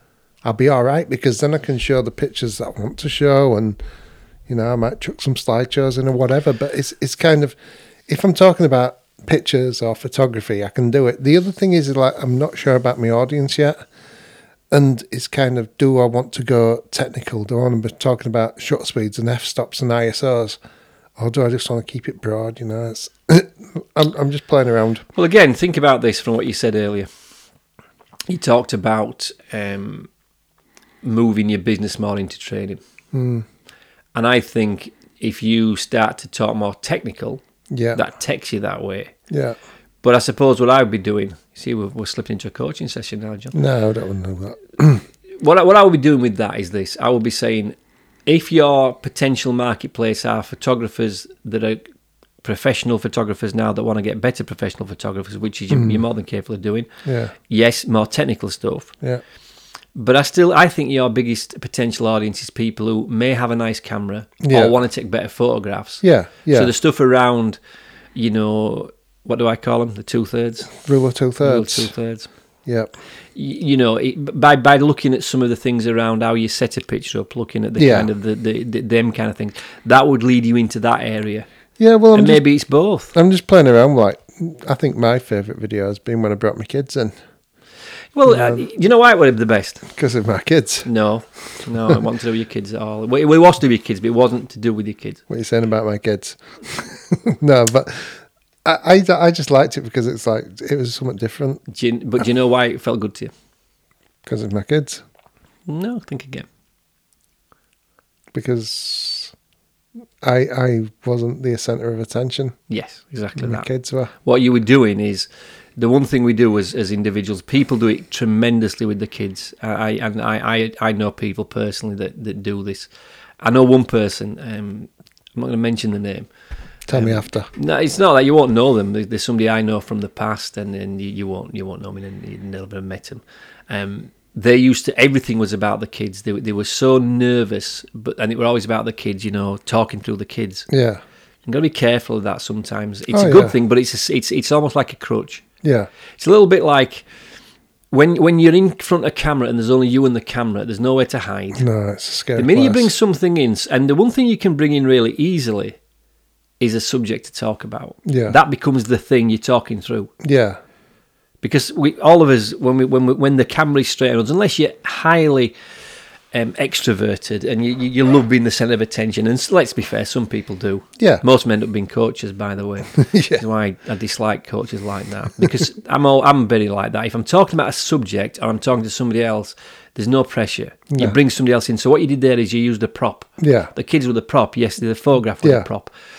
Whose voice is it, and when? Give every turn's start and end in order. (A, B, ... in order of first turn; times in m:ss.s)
0:00.4-0:03.8 A
0:04.5-0:07.5 A
0:08.1-0:13.8 A
0:14.7-0:20.6 A
0:21.2-0:25.0 A
0:25.1-0:27.1 B
0:28.3-0:30.1 B
0:31.0-0:32.8 B
0:33.1-0:33.4 A
0:34.1-0:37.4 B
0:37.7-0:38.0 A
0:37.9-0:39.1 B
0:39.3-0:39.6 A
0:40.0-0:43.6 B
0:43.5-0:45.0 A
0:45.4-0:47.7 B
0:48.3-0:51.8 B
0:52.4-0:56.9 B
0:55.7-0:56.0 A
0:57.0-0:57.3 A
0:57.5-0:58.9 B
0:59.9-1:07.6 B
1:04.4-1:04.7 A
1:06.0-1:06.7 A
1:08.1-1:10.7 B
1:10.8-1:11.9 A
1:11.4-1:12.3 B
1:12.6-1:12.9 A
1:13.4-1:21.5 B
1:17.8-1:18.1 A
1:21.8-1:22.4 A
1:22.1-1:23.1 B
1:23.1-1:27.1 A
1:28.2-1:29.8 B
1:28.3-1:28.6 A
1:29.9-1:30.9 A
1:30.8-1:35.2 B
1:35.3-1:41.6 A
1:41.7-1:43.3 B
1:44.2-1:45.0 A
1:45.7-1:46.5 B
1:48.3-1:49.3 A
1:50.2-1:52.5 A
1:52.7-1:53.7 B
1:53.4-1:54.1 A
1:54.2-2:02.9 B
2:03.4-2:06.3 B
2:06.9-2:07.5 A
2:06.9-2:20.7 B
2:20.7-2:21.0 A
2:21.4-2:25.4 B
2:23.1-2:23.5 A
2:25.6-2:25.9 A
2:26.2-2:27.0 B
2:27.9-2:31.6 B
2:31.6-2:32.9 A
2:32.4-2:35.8 B
2:36.6-2:40.1 B
2:38.0-2:38.4 A
2:40.2-2:40.6 A
2:41.4-2:45.5 B
2:46.3-3:05.9 B
2:52.9-2:53.4 A
3:03.4-3:03.7 A